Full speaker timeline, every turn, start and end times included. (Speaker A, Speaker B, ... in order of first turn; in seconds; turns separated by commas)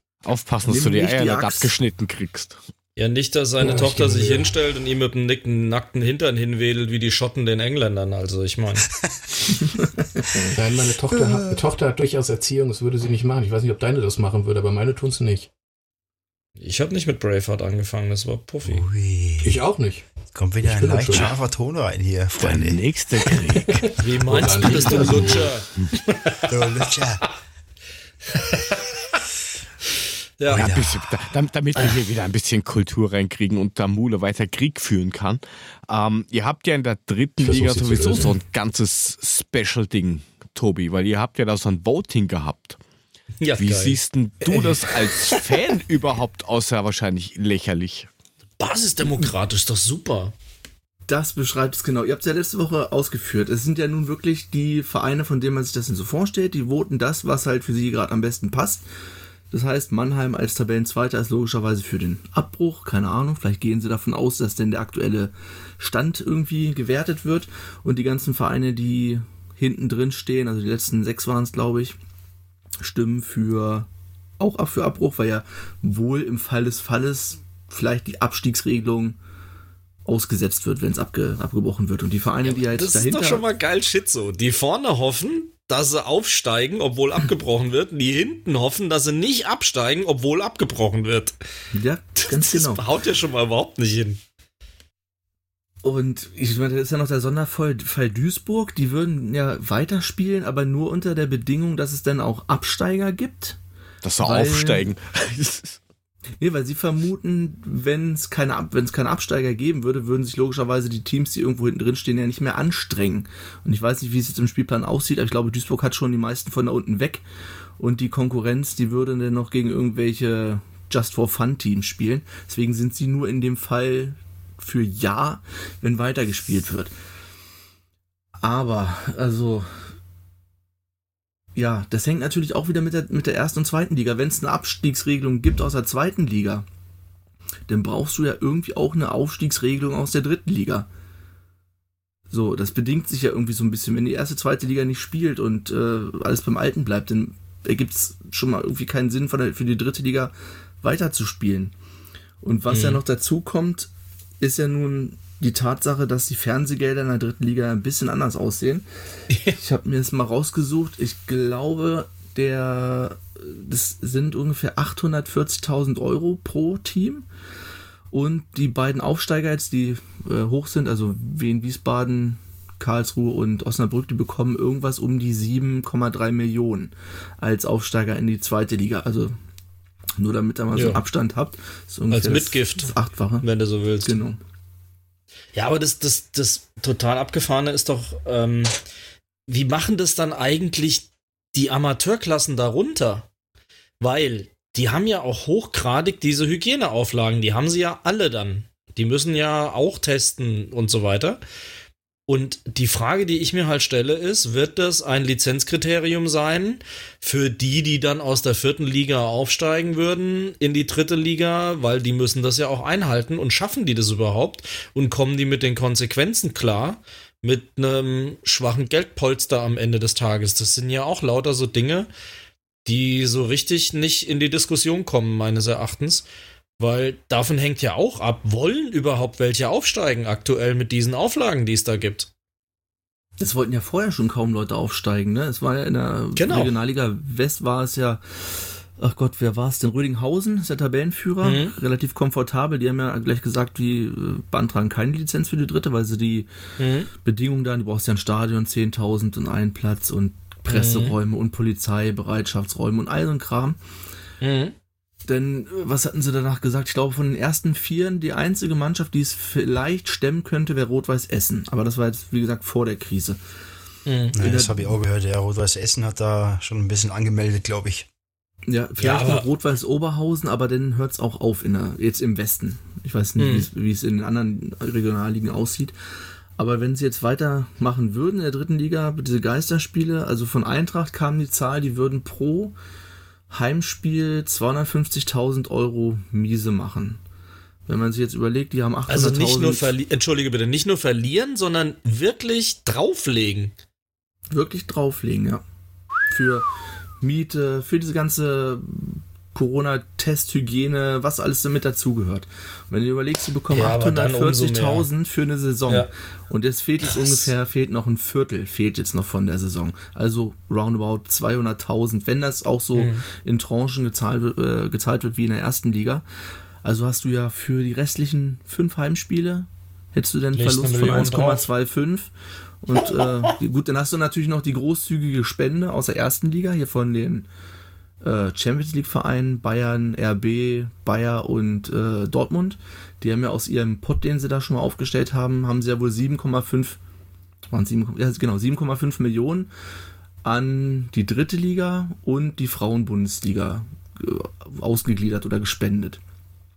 Speaker A: 0.2-2.6, Speaker B: 0.7-1.7, Speaker C: 3.0-8.9, Speaker D: 3.6-4.5, Speaker D: 10.5-15.5, Speaker E: 11.3-11.6, Speaker C: 16.6-18.9, Speaker E: 18.6-19.6, Speaker D: 19.4-20.1, Speaker E: 20.3-22.8, Speaker D: 20.6-21.3, Speaker A: 22.4-24.0, Speaker D: 23.6-25.5, Speaker C: 24.0-26.9, Speaker A: 24.7-25.9, Speaker E: 26.5-27.3, Speaker C: 28.5-28.8, Speaker C: 30.4-30.7, Speaker A: 30.5-42.8, Speaker E: 30.5-31.2, Speaker D: 37.4-38.3, Speaker C: 43.4-44.0, Speaker A: 43.6-48.1, Speaker C: 45.2-45.6, Speaker C: 48.6-50.3, Speaker B: 51.1-58.8, Speaker B: 59.5-72.0, Speaker B: 72.8-73.9, Speaker B: 74.4-79.2, Speaker B: 80.0-83.4, Speaker C: 82.4-91.3, Speaker B: 91.7-92.8, Speaker C: 92.2-94.2, Speaker B: 95.8-103.6, Speaker A: 104.0-105.8, Speaker B: 104.2-104.9, Speaker B: 106.4-117.2, Speaker B: 117.8-126.9, Speaker B: 128.4-129.7, Speaker B: 131.6-136.7, Speaker B: 137.7-140.9, Speaker B: 142.3-151.7, Speaker B: 152.4-158.8, Speaker C: 152.7-153.0, Speaker C: 159.3-159.6, Speaker B: 159.6-167.3, Speaker B: 168.1-179.3, Speaker B: 180.2-183.5, Speaker C: 180.7-181.0, Speaker C: 182.1-184.2, Speaker B: 184.0-184.4, Speaker C: 185.6-188.8, Speaker C: 189.5-193.3, Speaker C: 194.0-201.4, Speaker C: 202.3-222.1, Speaker C: 222.8-226.3, Speaker C: 226.8-232.3, Speaker B: 233.4-246.5, Speaker C: 236.4-236.7, Speaker C: 241.4-241.7, Speaker C: 246.8-247.1, Speaker B: 247.1-253.8, Speaker C: 250.7-251.2, Speaker C: 254.4-254.8, Speaker B: 255.3-263.4, Speaker C: 264.1-264.4, Speaker E: 264.4-268.1, Speaker B: 264.4-264.9, Speaker B: 268.7-275.9, Speaker C: 269.0-269.5, Speaker C: 273.4-273.7, Speaker B: 276.6-282.8, Speaker B: 283.5-287.2, Speaker B: 287.9-289.9, Speaker C: 289.1-293.7, Speaker B: 294.5-295.6, Speaker B: 296.3-296.7, Speaker B: 297.2-316.2, Speaker C: 303.7-305.1, Speaker C: 307.1-307.5, Speaker C: 312.9-313.2, Speaker B: 316.8-322.3, Speaker C: 320.6-321.7, Speaker B: 322.8-327.5, Speaker B: 328.2-337.0, Speaker B: 337.7-339.7, Speaker B: 340.4-346.2